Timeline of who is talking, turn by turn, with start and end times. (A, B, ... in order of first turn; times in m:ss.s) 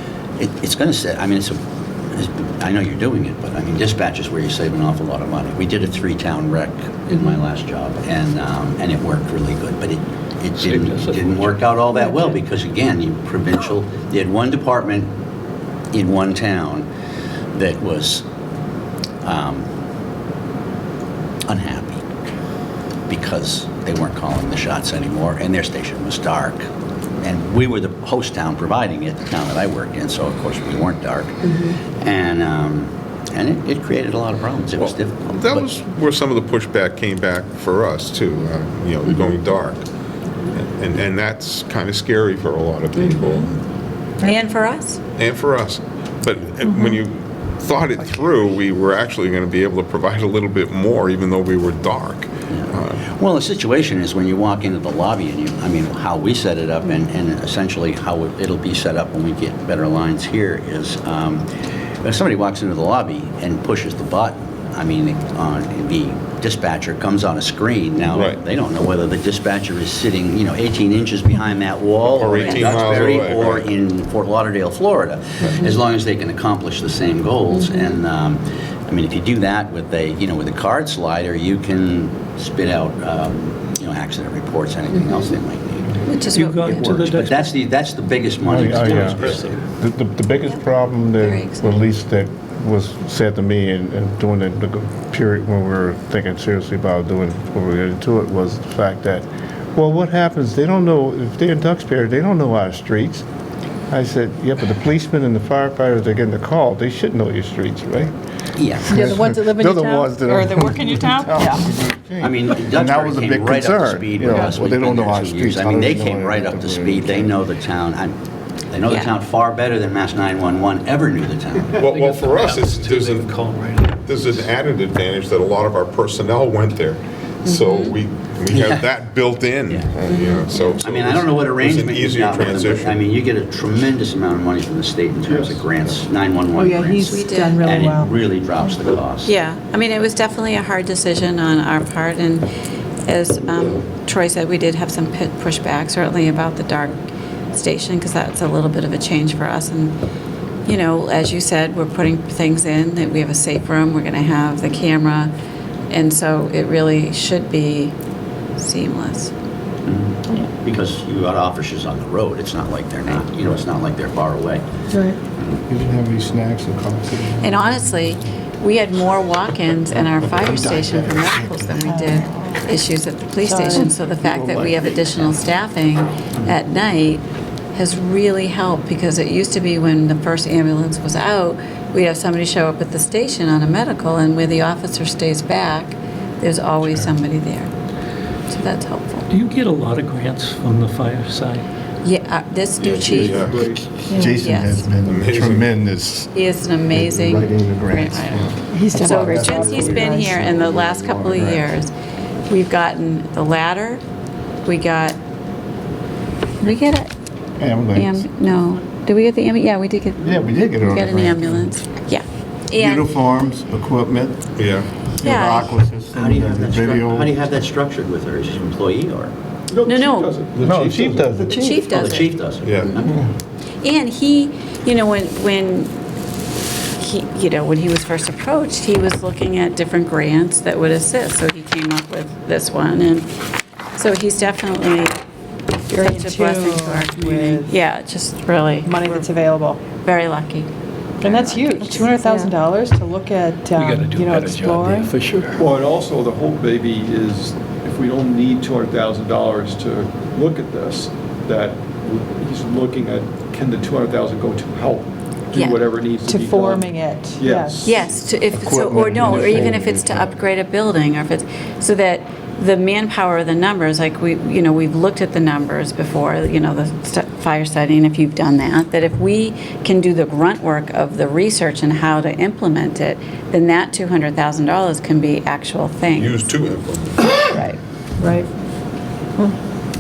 0:00.4-0:15.1 A
0:10.6-0:12.2 B
0:15.9-0:16.9 A
0:17.5-0:18.2 A
0:19.2-0:19.7 A
0:21.5-0:22.0 A
0:23.1-0:26.6 A
0:27.2-0:35.7 A
0:34.8-0:39.9 C
0:40.5-0:43.6 C
0:44.2-0:45.0 D
0:45.2-0:53.1 C
0:52.5-1:01.4 A
1:02.0-1:26.0 A
1:08.1-1:08.4 C
1:12.0-1:13.7 C
1:12.4-1:12.7 D
1:26.0-1:27.0 D
1:26.3-1:27.6 B
1:26.7-1:29.6 A
1:28.4-1:43.2 E
1:28.7-1:29.5 B
1:31.2-1:31.8 D
1:43.9-1:48.1 E
1:48.6-1:49.2 A
1:48.8-1:57.4 E
1:48.9-1:51.7 F
1:52.2-1:58.1 A
1:58.7-2:01.8 A
2:01.8-2:04.4 B
2:01.8-2:03.3 C
2:04.1-2:13.0 C
2:07.4-2:08.0 D
2:08.5-2:08.9 A
2:09.7-2:10.0 A
2:10.6-2:19.3 A
2:15.3-2:15.6 G
2:16.6-2:18.1 F
2:17.1-2:17.8 D
2:19.3-2:22.5 D
2:23.1-2:27.0 D
2:27.5-2:30.0 D
2:30.7-2:35.3 D
2:35.9-2:38.0 D
2:38.6-2:39.3 D
2:39.9-2:44.7 A
2:44.9-2:45.2 F
2:45.7-2:48.2 E
2:47.4-2:57.2 D
2:49.9-2:52.2 E
2:51.8-2:52.3 F
2:53.4-2:53.9 F
2:54.2-2:54.7 E
2:57.7-3:07.7 D
3:06.8-3:07.1 B
3:08.5-3:09.3 D
3:09.3-3:11.7 B
3:12.0-3:13.6 D
3:12.8-3:13.6 C
3:13.0-3:13.9 G
3:13.5-3:16.3 E
3:14.1-3:14.4 F
3:14.2-3:14.9 D
3:15.0-3:15.7 C
3:16.3-3:21.9 D
3:16.9-3:21.7 E
3:18.7-3:20.4 F
3:22.5-3:24.0 D
3:24.6-3:25.2 D
3:26.6-3:27.1 D
3:27.6-3:28.2 E
3:27.9-3:33.1 D
3:30.2-3:31.7 E
3:32.8-3:34.4 E
3:34.6-3:34.9 C
3:35.2-3:37.4 E
3:35.2-3:35.7 D
3:36.1-3:39.3 A
3:39.7-3:41.3 G
3:39.9-3:40.3 D
3:40.6-3:42.3 E
3:41.4-3:42.3 D
3:41.8-3:43.2 A
3:42.6-3:43.0 C
3:42.9-3:43.1 D
3:43.8-3:45.9 D
3:47.0-3:53.3 D
3:54.0-3:55.2 D
3:55.9-3:59.3 D
3:55.9-3:57.8 F
3:58.8-3:59.8 F
3:59.9-4:00.7 D
4:01.2-4:02.2 D
4:01.2-4:05.1 F
4:03.7-4:05.7 B
4:05.6-4:18.2 G
4:15.5-4:15.8 D
4:16.2-4:17.9 F
4:17.8-4:36.4 D
4:18.5-4:20.4 E
4:19.3-4:19.6 G
4:36.1-4:37.4 C
4:38.2-4:38.5 F